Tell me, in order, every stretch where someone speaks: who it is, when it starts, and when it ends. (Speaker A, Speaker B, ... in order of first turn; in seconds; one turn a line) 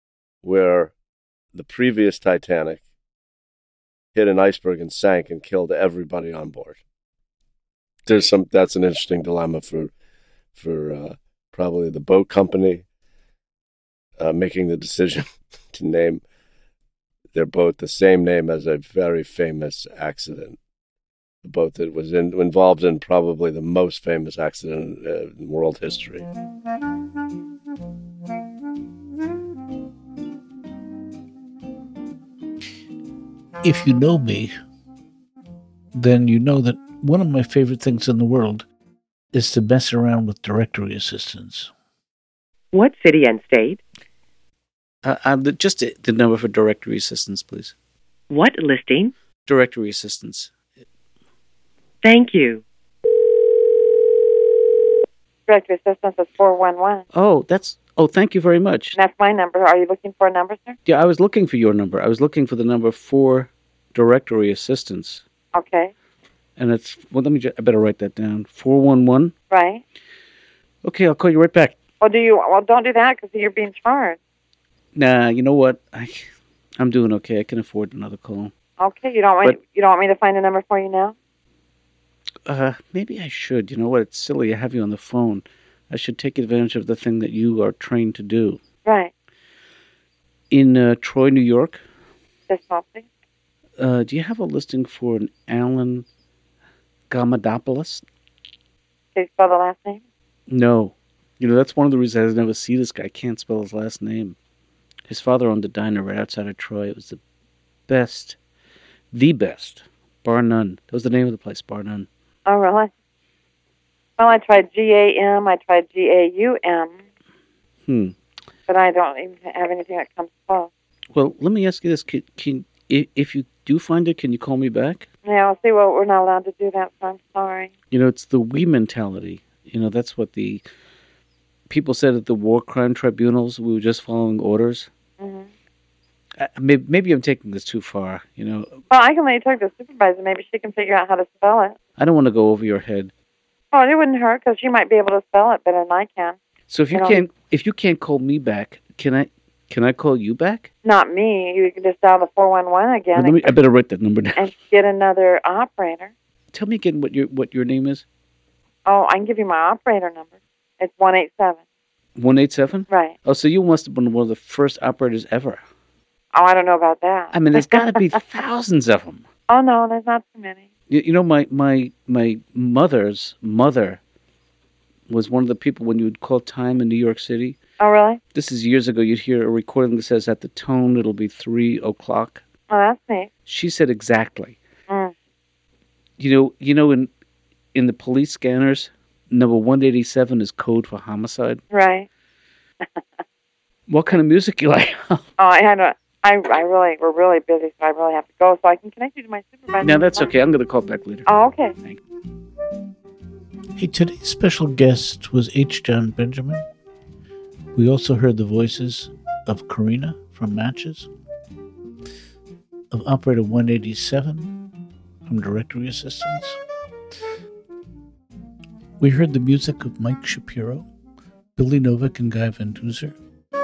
Speaker A: 0.4-0.9
Speaker A: 1.5-2.8
Speaker A: 4.2-6.8
Speaker A: 8.1-9.9
Speaker A: 10.5-12.9
Speaker A: 14.2-16.2
Speaker A: 17.3-20.6
Speaker A: 21.4-26.3
Speaker B: 33.6-34.5
Speaker B: 36.0-38.7
Speaker B: 39.3-41.7
Speaker C: 42.7-43.8
Speaker D: 45.0-47.7
Speaker C: 48.3-49.1
Speaker D: 49.5-50.5
Speaker C: 52.0-52.6
Speaker E: 55.5-57.0
Speaker D: 57.1-59.0
Speaker E: 59.0-60.8
Speaker D: 60.9-65.2
Speaker E: 65.5-65.9
Speaker D: 66.6-69.3
Speaker E: 69.5-69.8
Speaker D: 70.8-71.8
Speaker E: 72.0-74.2
Speaker D: 75.0-78.5
Speaker E: 78.8-81.1
Speaker D: 82.5-88.6
Speaker E: 88.8-89.1
Speaker D: 90.5-91.8
Speaker E: 92.5-93.1
Speaker D: 93.8-96.1
Speaker D: 97.1-98.0
Speaker E: 99.2-100.0
Speaker D: 100.5-104.4
Speaker D: 105.1-107.2
Speaker D: 107.9-108.4
Speaker D: 109.1-112.1
Speaker E: 112.5-112.9
Speaker E: 114.2-117.0
Speaker D: 117.9-118.2
Speaker E: 118.7-120.7
Speaker D: 121.1-125.1
Speaker E: 125.2-127.7
Speaker D: 127.9-130.6
Speaker D: 131.7-134.9
Speaker E: 135.2-135.5
Speaker D: 136.4-138.8
Speaker E: 138.9-141.8
Speaker D: 142.0-143.1
Speaker E: 143.7-146.4
Speaker D: 146.7-150.7
Speaker E: 146.9-147.2
Speaker E: 150.8-153.6
Speaker D: 153.2-154.5
Speaker E: 154.4-156.1
Speaker D: 156.5-158.1
Speaker E: 158.9-161.6
Speaker D: 162.2-165.6
Speaker E: 162.9-163.2
Speaker E: 166.3-168.0
Speaker D: 167.3-169.2
Speaker E: 169.5-170.7
Speaker D: 170.9-174.0
Speaker D: 175.1-177.6
Speaker E: 177.8-178.2
Speaker D: 178.3-182.4
Speaker E: 182.7-183.3
Speaker D: 183.5-184.6
Speaker D: 186.2-187.1
Speaker D: 187.8-191.6
Speaker E: 191.7-192.1
Speaker D: 193.9-195.3
Speaker E: 195.4-200.3
Speaker D: 199.8-201.3
Speaker E: 201.3-201.8
Speaker B: 203.8-206.7
Speaker B: 207.8-211.1
Speaker B: 212.9-214.5
Speaker B: 215.3-216.6
Speaker B: 219.0-220.9
Speaker B: 221.6-223.2